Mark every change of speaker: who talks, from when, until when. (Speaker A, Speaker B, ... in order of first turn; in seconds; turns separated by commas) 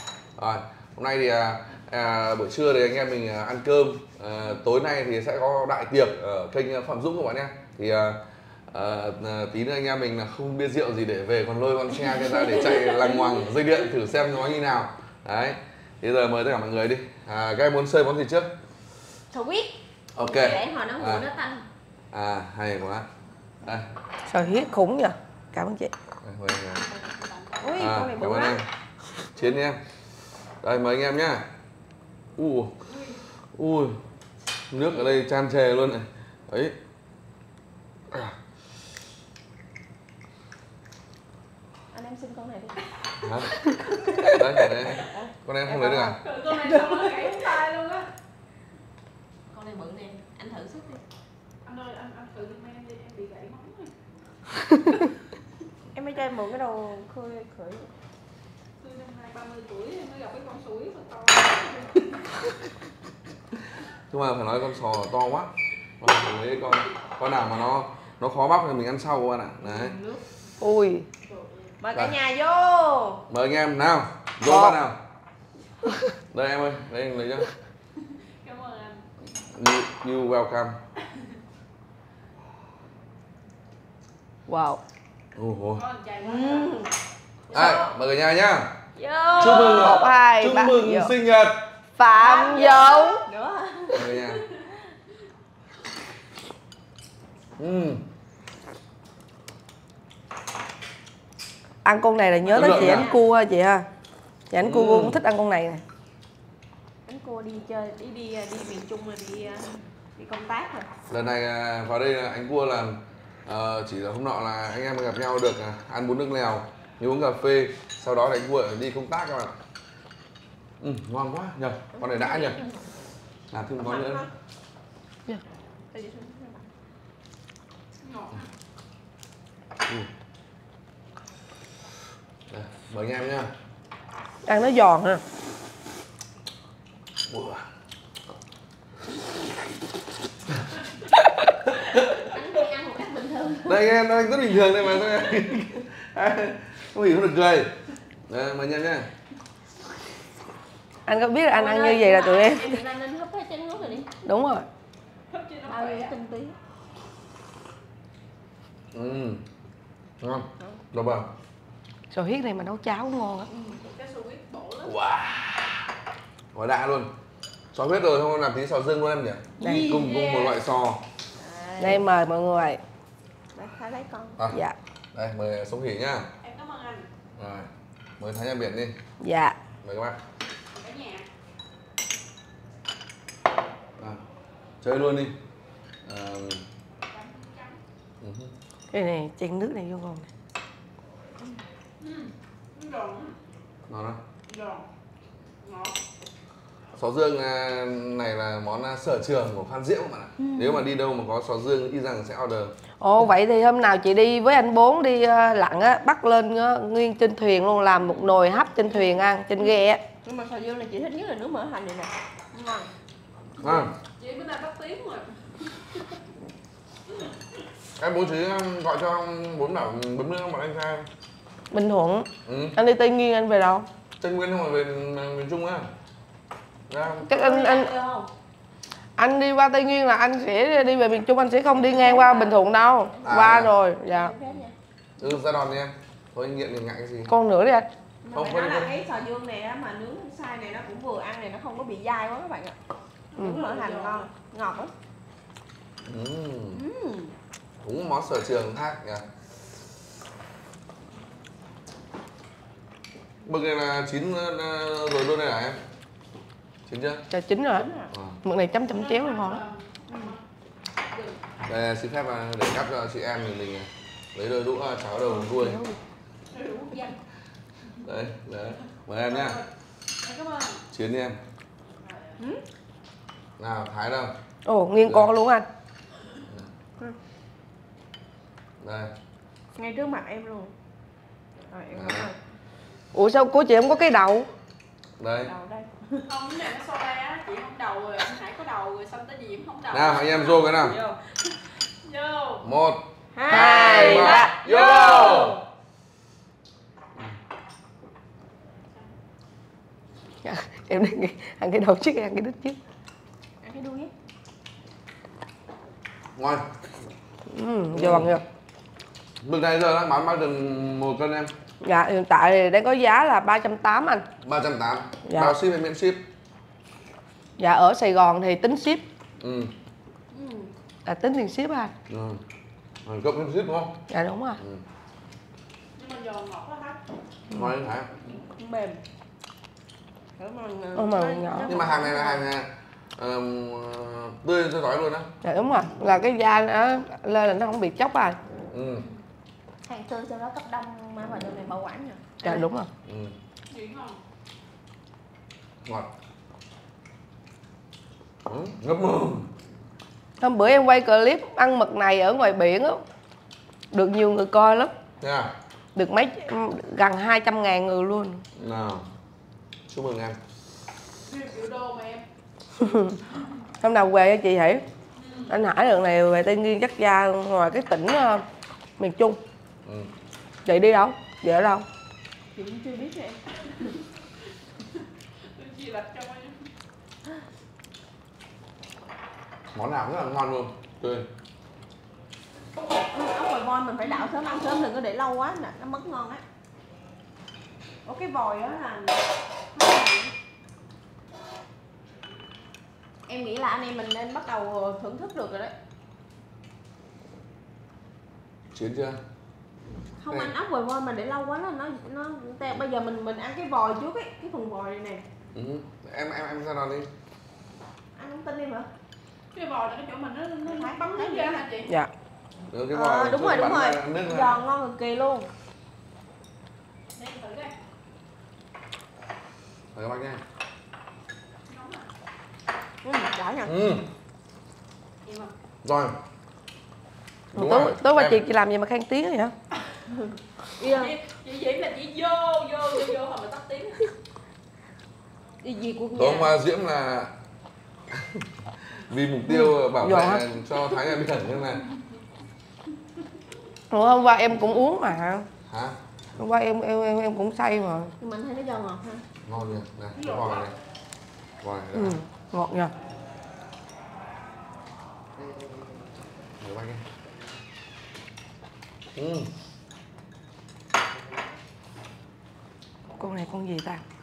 Speaker A: 0.4-18.5, Speaker B: 12.2-13.2, Speaker B: 19.3-21.6, Speaker A: 20.1-21.3, Speaker A: 22.1-23.1, Speaker C: 24.3-25.9, Speaker A: 26.2-26.8, Speaker D: 26.8-27.9, Speaker B: 27.6-28.6, Speaker A: 27.8-28.7, Speaker A: 29.3-29.8, Speaker A: 30.6-31.5, Speaker A: 32.4-32.8, Speaker D: 32.8-33.2, Speaker A: 33.5-34.0, Speaker A: 34.7-36.8, Speaker A: 38.1-38.4, Speaker B: 41.9-42.8, Speaker A: 43.2-43.6, Speaker B: 43.7-47.5, Speaker A: 44.3-46.2, Speaker D: 46.2-48.1, Speaker B: 49.5-51.0, Speaker D: 51.6-53.9, Speaker B: 55.9-57.9, Speaker D: 58.8-62.2, Speaker A: 64.1-70.0, Speaker D: 69.6-70.2, Speaker C: 70.6-71.0, Speaker D: 71.2-71.7, Speaker B: 71.8-73.2, Speaker A: 73.3-75.0, Speaker C: 74.5-74.8, Speaker A: 76.3-77.5, Speaker D: 78.4-79.0, Speaker A: 79.4-80.8, Speaker C: 84.5-84.8, Speaker A: 85.3-85.8, Speaker D: 85.7-86.8, Speaker B: 86.2-86.9, Speaker B: 87.5-87.8, Speaker A: 87.5-88.7, Speaker B: 89.0-90.1, Speaker A: 89.3-91.6, Speaker C: 89.6-91.1, Speaker C: 92.0-93.2, Speaker B: 92.1-94.1, Speaker A: 93.9-94.4, Speaker A: 97.6-98.0, Speaker C: 101.8-103.8, Speaker B: 102.5-103.2, Speaker A: 102.5-103.1, Speaker C: 104.5-105.8, Speaker A: 104.6-105.2, Speaker B: 107.0-110.9, Speaker A: 111.1-119.5, Speaker A: 120.8-122.6, Speaker B: 121.9-122.8, Speaker A: 123.5-124.3, Speaker B: 123.8-124.3, Speaker B: 125.9-126.7, Speaker D: 128.0-128.5, Speaker A: 132.5-133.5, Speaker C: 134.4-135.2, Speaker A: 137.3-137.6, Speaker A: 141.1-142.1, Speaker B: 142.2-143.8, Speaker A: 143.7-147.7, Speaker A: 148.3-149.1, Speaker C: 151.1-152.7, Speaker B: 151.5-154.1, Speaker C: 154.2-154.7, Speaker D: 155.3-156.1, Speaker B: 155.7-156.5, Speaker A: 158.9-159.4, Speaker A: 160.2-161.3, Speaker C: 162.1-163.5, Speaker D: 163.7-164.9, Speaker A: 164.8-165.4, Speaker A: 166.5-167.1, Speaker A: 167.7-171.0, Speaker D: 169.6-170.6, Speaker B: 171.4-172.0, Speaker C: 171.8-172.8, Speaker B: 173.5-174.4, Speaker A: 175.1-176.3, Speaker D: 176.4-177.1, Speaker A: 177.3-178.9, Speaker C: 179.2-179.5, Speaker A: 179.8-180.2, Speaker D: 180.7-181.2, Speaker A: 184.8-185.3, Speaker A: 186.0-186.6, Speaker D: 187.1-187.8, Speaker A: 188.2-188.5, Speaker C: 188.9-190.3, Speaker D: 192.0-193.4, Speaker A: 193.9-194.2, Speaker D: 194.4-194.8, Speaker D: 195.6-195.9, Speaker A: 197.0-202.7, Speaker B: 200.4-200.9, Speaker C: 203.0-210.0, Speaker B: 208.9-212.9, Speaker A: 213.6-213.9, Speaker D: 213.6-216.2, Speaker A: 218.0-221.1, Speaker C: 221.7-223.9, Speaker A: 222.4-222.8, Speaker A: 224.2-225.9, Speaker A: 226.9-227.3, Speaker C: 227.3-227.9, Speaker B: 227.3-228.3, Speaker C: 229.2-234.3, Speaker B: 231.7-234.7, Speaker A: 233.2-233.7, Speaker A: 235.2-237.3, Speaker C: 237.3-237.8, Speaker B: 238.2-242.8, Speaker A: 238.3-238.9, Speaker D: 243.3-244.3, Speaker B: 243.4-244.9, Speaker A: 246.0-246.8, Speaker B: 246.7-247.3, Speaker A: 247.8-249.2, Speaker A: 253.4-255.8, Speaker A: 256.9-257.2, Speaker C: 257.3-257.9, Speaker B: 257.7-258.1, Speaker A: 258.1-258.4, Speaker C: 258.4-259.6, Speaker D: 258.8-260.4, Speaker D: 261.0-261.4, Speaker A: 261.7-265.8, Speaker C: 265.4-266.0, Speaker D: 266.5-267.2, Speaker A: 268.0-269.6, Speaker D: 269.2-269.7, Speaker D: 270.2-270.8, Speaker A: 270.9-271.4, Speaker D: 272.0-272.4, Speaker A: 273.6-274.3, Speaker C: 274.6-275.6, Speaker A: 275.0-275.3, Speaker A: 278.8-279.1, Speaker B: 279.7-280.7, Speaker B: 281.7-282.4, Speaker A: 281.9-282.3, Speaker C: 283.1-284.5, Speaker A: 285.2-285.5, Speaker B: 285.4-286.2, Speaker D: 286.2-292.6, Speaker A: 289.9-291.0, Speaker A: 292.6-295.6, Speaker B: 293.3-295.6, Speaker C: 293.5-294.5, Speaker D: 294.6-295.5, Speaker C: 300.4-302.8, Speaker B: 303.6-304.1, Speaker A: 306.4-306.6, Speaker C: 307.5-308.4, Speaker A: 307.9-308.3, Speaker A: 309.4-311.5, Speaker C: 311.8-314.2, Speaker A: 314.4-316.2, Speaker C: 315.2-315.5, Speaker C: 317.6-319.0, Speaker A: 319.4-319.7, Speaker B: 320.3-320.7, Speaker C: 321.1-321.9, Speaker A: 322.1-322.4, Speaker A: 323.0-324.0, Speaker C: 324.1-324.6, Speaker A: 324.6-324.8, Speaker D: 325.9-327.0, Speaker A: 327.5-328.1, Speaker B: 328.6-329.0, Speaker B: 330.4-332.4, Speaker C: 330.9-331.7, Speaker A: 331.6-335.3, Speaker C: 335.4-338.4, Speaker A: 338.7-339.1, Speaker B: 339.9-342.6, Speaker C: 342.4-342.9, Speaker A: 343.0-343.3, Speaker D: 343.7-344.2, Speaker A: 348.4-349.5, Speaker C: 350.4-353.0, Speaker C: 353.9-354.9, Speaker A: 355.2-355.5, Speaker C: 355.9-358.4, Speaker A: 358.6-359.1, Speaker A: 359.9-360.4, Speaker D: 361.2-362.2, Speaker C: 362.8-363.2, Speaker C: 363.8-364.8, Speaker D: 365.1-365.6, Speaker C: 365.5-368.4, Speaker C: 369.0-369.4, Speaker A: 369.8-370.1, Speaker C: 370.6-371.8, Speaker B: 372.5-373.4, Speaker D: 375.5-376.6, Speaker A: 379.7-381.3, Speaker B: 383.1-386.4, Speaker D: 384.0-384.8, Speaker B: 388.0-390.3, Speaker B: 393.3-395.7, Speaker A: 398.7-399.2, Speaker B: 400.2-405.2, Speaker A: 400.3-400.5, Speaker A: 405.5-407.1, Speaker B: 408.1-408.9, Speaker D: 409.5-411.9, Speaker B: 410.7-411.6, Speaker A: 412.7-414.6, Speaker B: 412.9-415.5, Speaker D: 417.1-417.7, Speaker A: 419.9-420.4, Speaker D: 421.7-422.1, Speaker B: 423.0-423.8, Speaker A: 423.6-424.1, Speaker D: 425.2-425.5, Speaker A: 425.8-426.2, Speaker A: 427.5-428.4, Speaker C: 427.6-429.5, Speaker B: 430.1-431.1, Speaker D: 430.9-434.1, Speaker B: 435.6-436.5, Speaker A: 436.1-437.3, Speaker A: 438.1-441.8, Speaker C: 439.6-440.4, Speaker C: 443.9-445.5, Speaker A: 445.7-446.0, Speaker C: 446.4-448.1, Speaker B: 448.2-449.2, Speaker A: 449.4-450.7, Speaker D: 450.1-450.7, Speaker A: 451.6-452.2, Speaker C: 451.9-452.9, Speaker A: 456.6-457.0, Speaker A: 459.1-459.5, Speaker C: 463.2-464.0